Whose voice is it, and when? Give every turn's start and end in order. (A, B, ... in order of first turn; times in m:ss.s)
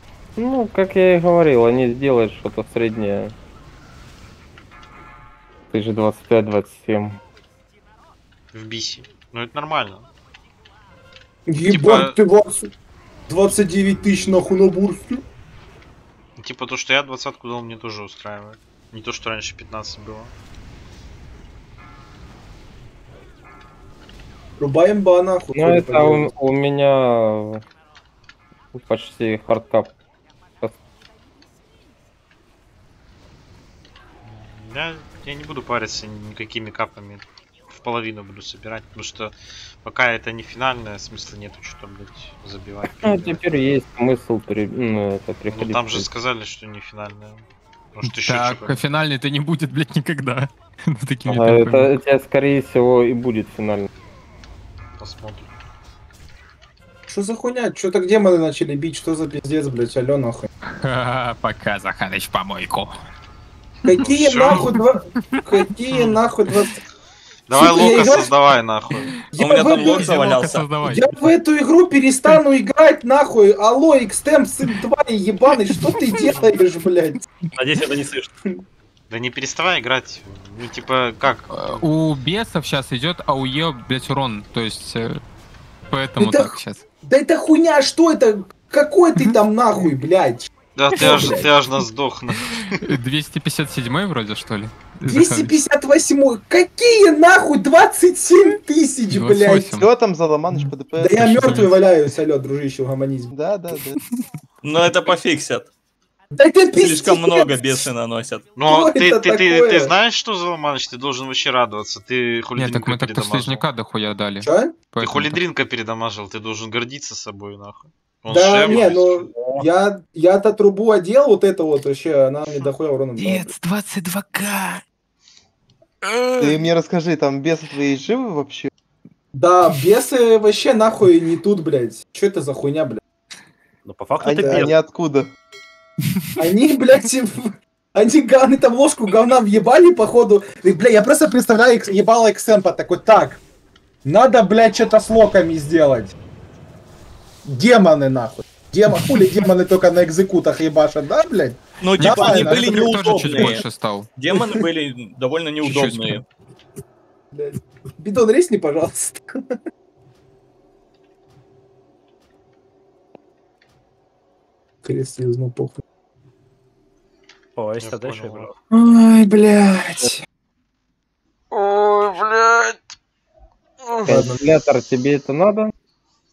0:00.4-0:03.3 A
0:05.7-0:07.2 A
0:08.5-0:10.1 B
0:11.5-0:12.7 C
0:11.7-0:12.2 B
0:13.3-0:15.2 C
0:16.4-0:20.3 B
0:24.6-0:26.3 C
0:25.5-0:27.6 A
0:28.7-0:29.9 A
0:34.2-0:43.6 B
0:42.8-0:46.1 A
0:45.5-0:48.8 B
0:48.0-0:51.9 D
0:51.3-0:53.9 A
0:55.0-0:55.5 B
0:57.1-1:00.5 C
1:00.6-1:02.9 D
1:03.8-1:06.8 C
1:04.0-1:04.7 B
1:04.5-1:05.4 D
1:07.5-1:09.1 B
1:07.5-1:08.3 C
1:09.3-1:17.2 C
1:09.4-1:10.7 E
1:09.8-1:11.3 D
1:16.0-1:16.3 D
1:17.5-1:18.3 F
1:19.1-1:21.8 B
1:21.5-1:25.2 D
1:25.9-1:26.8 D
1:26.2-1:31.4 C
1:30.8-1:32.8 B
1:30.9-1:31.4 D
1:32.7-1:35.5 D
1:35.0-1:39.8 C
1:39.1-1:39.8 D
1:39.8-1:41.3 G
1:41.0-1:43.3 C
1:41.2-1:41.8 D
1:43.3-1:44.0 G
1:44.6-1:45.7 E
1:46.3-1:47.8 C
1:46.7-1:48.6 E
1:48.6-1:53.6 B
1:48.6-1:49.9 C
1:52.6-1:55.4 D
1:54.4-1:54.8 C
1:55.0-1:59.1 B
1:58.3-2:03.5 C
1:59.3-1:59.6 F
2:03.2-2:04.8 D
2:06.0-2:06.6 D
2:06.4-2:08.7 G
2:09.3-2:13.0 C
2:13.8-2:14.7 F
2:14.2-2:15.3 G
2:16.4-2:23.4 C
2:24.0-2:26.1 C
2:27.4-2:33.6 C
2:31.8-2:33.6 E
2:32.0-2:34.1 D
2:34.2-2:36.2 E
2:35.6-2:36.2 D
2:37.3-2:39.2 C
2:44.8-2:45.8 C
2:47.6-2:48.5 F
2:47.8-2:48.5 B
2:48.7-2:50.2 D
2:51.5-2:52.8 B
2:54.0-2:55.7 A
2:54.1-2:54.4 C